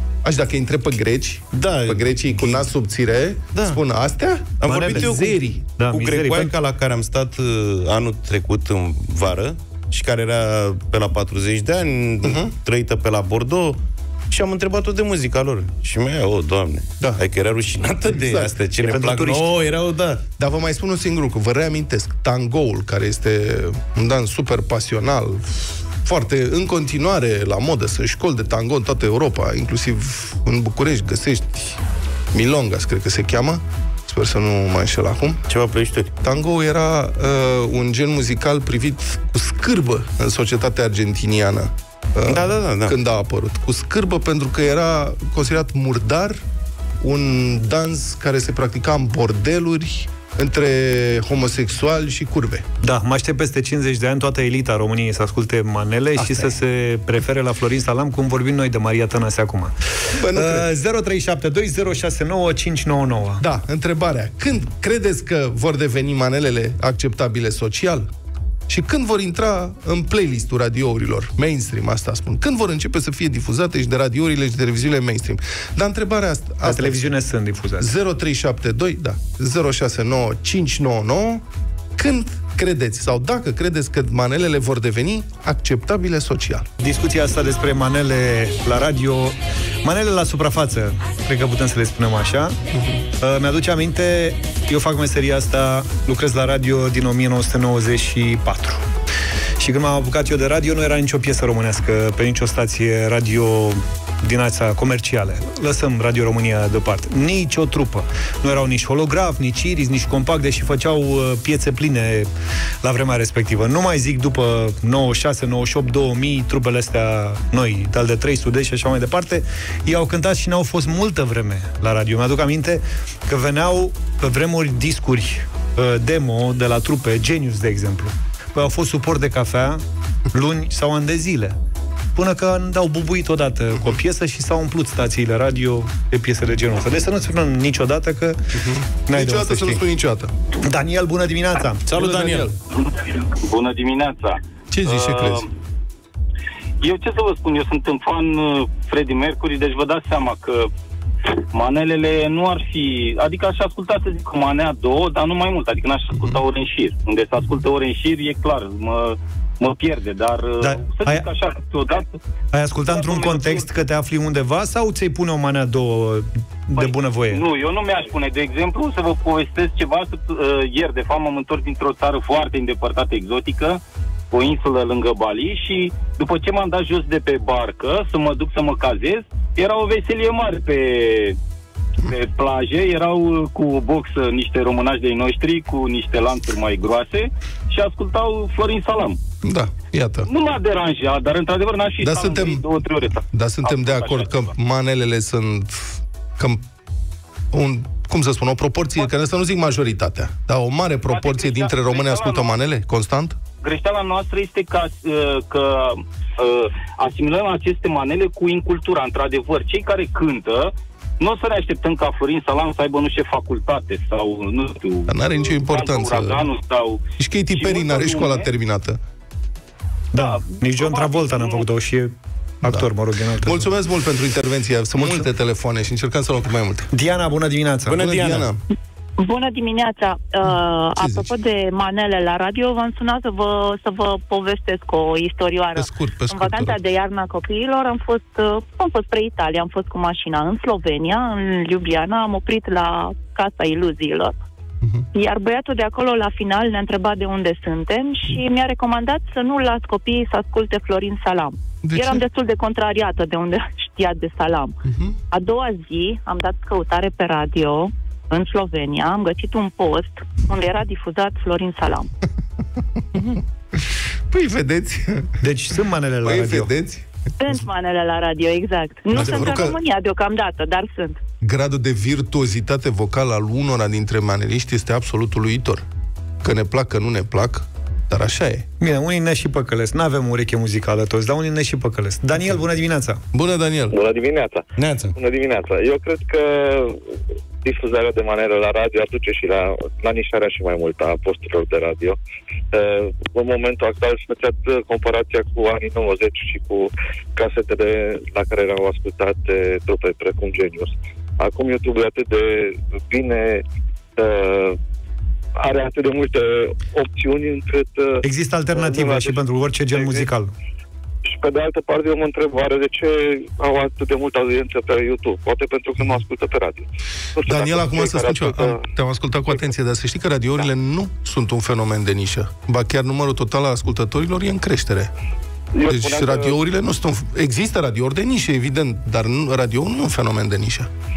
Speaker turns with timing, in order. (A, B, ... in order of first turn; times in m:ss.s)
0:00.2-0:05.6 A
0:01.5-0:02.6 B
0:03.5-0:03.8 B
0:04.6-0:05.3 B
0:04.6-0:06.5 C
0:05.9-0:13.8 B
0:12.2-0:12.5 A
0:14.3-0:20.2 B
0:18.1-0:18.6 A
0:18.8-0:19.5 C
0:20.4-0:31.8 A
0:32.3-0:35.4 A
0:35.5-0:36.1 B
0:36.2-0:46.4 A
0:42.3-0:43.0 B
0:47.0-0:52.6 A
0:52.8-0:59.7 C
0:56.2-0:56.5 A
1:00.1-1:00.7 A
1:00.3-1:03.4 C
1:03.4-1:08.1 A
1:08.7-1:17.0 A
1:16.6-1:17.9 C
1:17.8-1:21.4 A
1:22.0-1:26.7 A
1:26.8-1:32.6 C
1:33.2-1:38.8 C
1:39.6-1:52.3 C
1:52.8-2:11.6 C
2:12.2-2:18.4 C
2:18.5-2:20.3 A
2:19.0-2:19.8 C
2:20.6-2:21.8 C
2:21.8-2:22.5 B
2:21.9-2:22.5 A
2:22.9-2:25.5 D
2:24.7-2:25.4 A
2:26.8-2:30.7 D
2:31.5-2:42.2 D
2:40.6-2:41.3 C
2:42.5-2:47.4 C
2:42.8-2:43.6 D
2:46.8-3:01.4 D
3:02.0-3:09.2 D
3:09.4-3:10.3 A
3:10.3-3:14.5 D
3:12.0-3:12.6 A
3:13.3-3:16.6 A
3:17.5-3:23.4 A
3:21.1-3:22.5 D
3:23.6-3:37.0 D
3:35.1-3:36.5 A
3:37.2-3:39.0 A
3:37.5-3:38.5 D
3:40.1-3:43.7 C
3:40.1-3:41.6 D
3:42.6-3:42.9 A
3:43.4-3:46.9 A
3:46.9-3:48.0 C
3:47.9-3:48.5 B
3:48.0-3:48.6 A
3:49.2-4:04.3 E
3:51.0-3:51.3 A
3:55.7-3:56.8 A
4:05.1-4:14.7 E
4:11.8-4:12.2 A
4:14.9-4:15.2 A
4:15.3-4:22.1 E
4:23.1-4:23.4 A
4:24.3-4:25.4 A
4:25.4-4:26.7 C
4:26.2-4:27.0 A
4:27.4-4:31.2 E
4:29.1-4:29.8 A
4:31.4-4:35.8 A
4:36.4-4:38.6 A
4:38.8-4:43.2 C
4:43.3-4:43.9 A
4:43.9-4:47.0 F
4:44.8-4:45.1 B
4:47.6-4:52.2 F
4:52.7-5:03.6 F
5:04.2-5:04.8 F
5:05.6-5:08.2 F
5:08.2-5:10.5 C
5:08.7-5:10.3 F
5:11.2-5:18.8 F
5:17.5-5:25.1 A
5:25.8-5:26.6 F
5:25.8-5:30.9 A